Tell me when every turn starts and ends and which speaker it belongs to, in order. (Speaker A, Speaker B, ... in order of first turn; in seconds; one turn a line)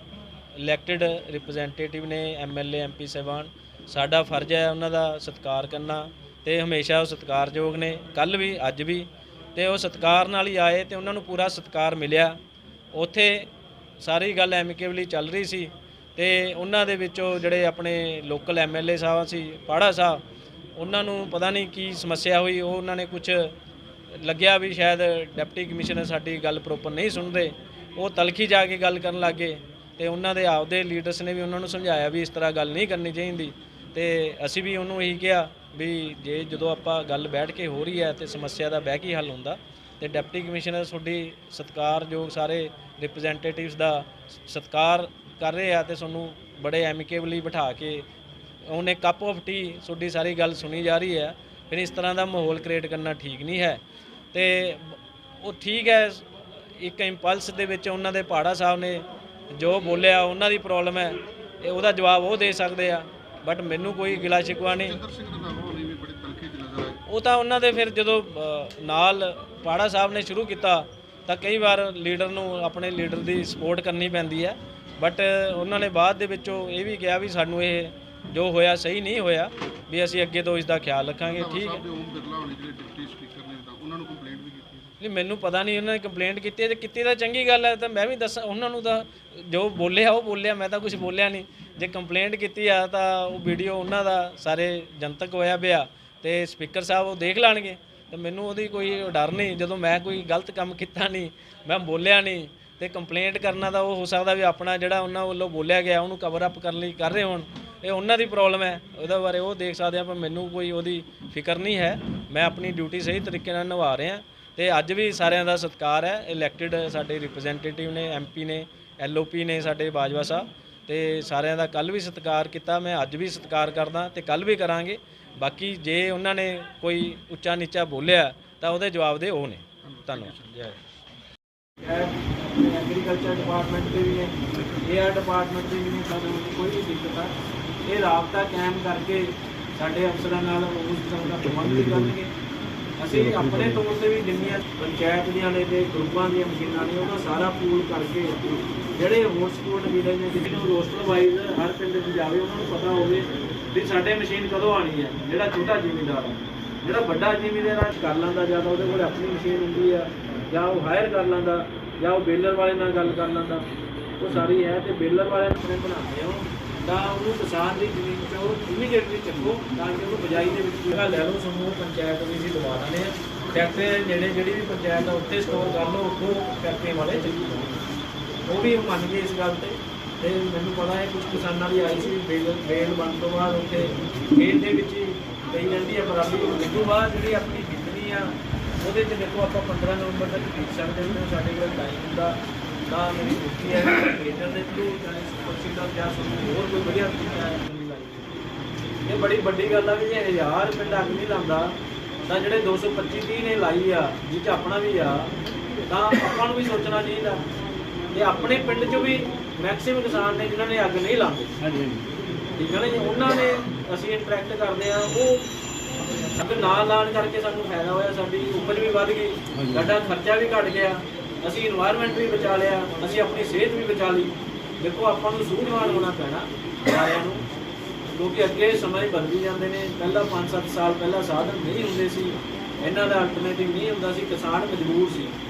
Speaker A: 0.6-12.4
Speaker A: 12.9-20.2
Speaker A: 20.8-23.5
Speaker A: 24.1-48.0
Speaker A: 48.7-53.8
Speaker A: 54.3-56.2
Speaker A: 56.8-65.0
Speaker B: 64.8-67.0
Speaker A: 67.1-81.8
Speaker B: 81.3-85.0
Speaker A: 85.0-130.8
Speaker B: 129.8-130.5
Speaker A: 131.8-137.3
Speaker A: 137.8-142.3
Speaker C: 141.6-142.0
Speaker A: 143.0-163.6
Speaker C: 143.1-143.8
Speaker A: 164.2-177.8
Speaker A: 178.5-192.3
Speaker A: 192.9-198.3
Speaker A: 199.1-201.7
Speaker A: 202.3-205.3
Speaker A: 205.9-207.4
Speaker A: 208.1-211.5
Speaker C: 211.6-212.1
Speaker A: 212.6-215.4
Speaker A: 216.3-227.4
Speaker C: 219.6-219.9
Speaker A: 228.1-235.3